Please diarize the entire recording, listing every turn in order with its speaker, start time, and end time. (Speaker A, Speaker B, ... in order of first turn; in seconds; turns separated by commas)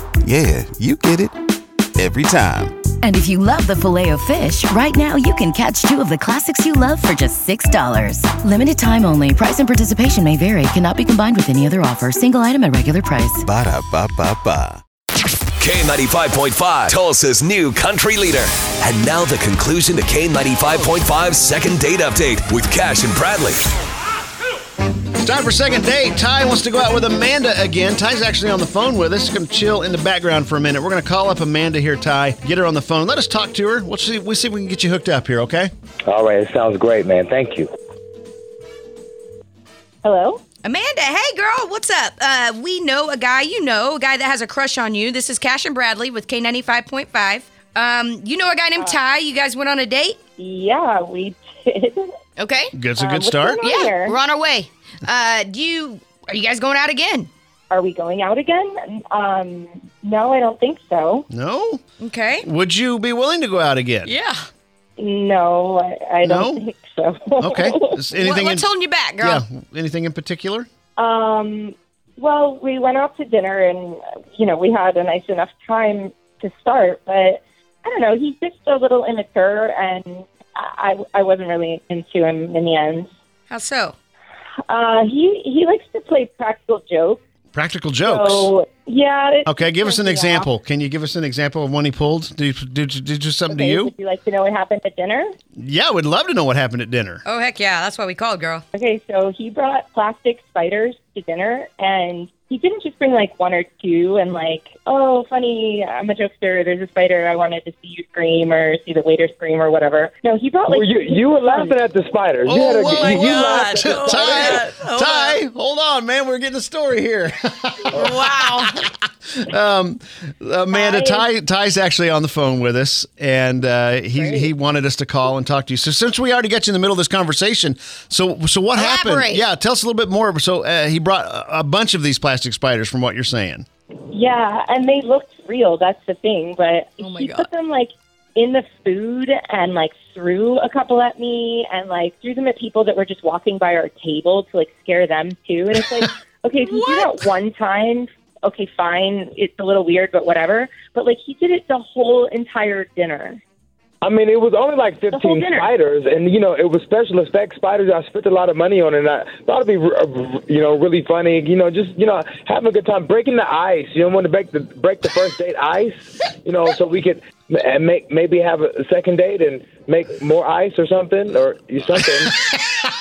Speaker A: 0.2-1.4, Speaker A: 2.0-2.9, Speaker B: 3.0-13.5, Speaker A: 13.4-14.8, Speaker C: 15.6-23.6, Speaker D: 25.2-35.7, Speaker E: 36.1-37.7, Speaker F: 40.0-40.4, Speaker G: 40.6-50.2, Speaker F: 50.4-52.1, Speaker G: 52.4-52.7, Speaker D: 52.7-53.6, Speaker F: 53.0-54.1, Speaker G: 53.6-57.3, Speaker F: 57.7-61.3, Speaker D: 61.3-61.8, Speaker G: 62.0-62.5, Speaker D: 62.4-64.1, Speaker G: 64.0-64.4, Speaker F: 65.0-68.0, Speaker D: 66.2-66.6, Speaker D: 67.4-70.7, Speaker G: 68.2-69.4, Speaker F: 71.0-83.1, Speaker G: 83.5-84.0, Speaker F: 84.7-87.2, Speaker D: 87.5-88.5, Speaker F: 88.0-90.5, Speaker D: 89.5-93.9, Speaker F: 93.5-95.3, Speaker D: 95.6-97.2, Speaker G: 97.2-98.6, Speaker F: 98.7-111.8, Speaker E: 110.7-114.6, Speaker D: 112.5-133.7, Speaker G: 112.9-115.4, Speaker G: 118.0-118.8, Speaker F: 120.7-121.3, Speaker F: 124.2-124.5, Speaker G: 128.8-129.4, Speaker F: 134.1-153.4, Speaker G: 137.0-137.5, Speaker G: 146.6-147.2, Speaker E: 154.0-172.4, Speaker F: 155.1-155.7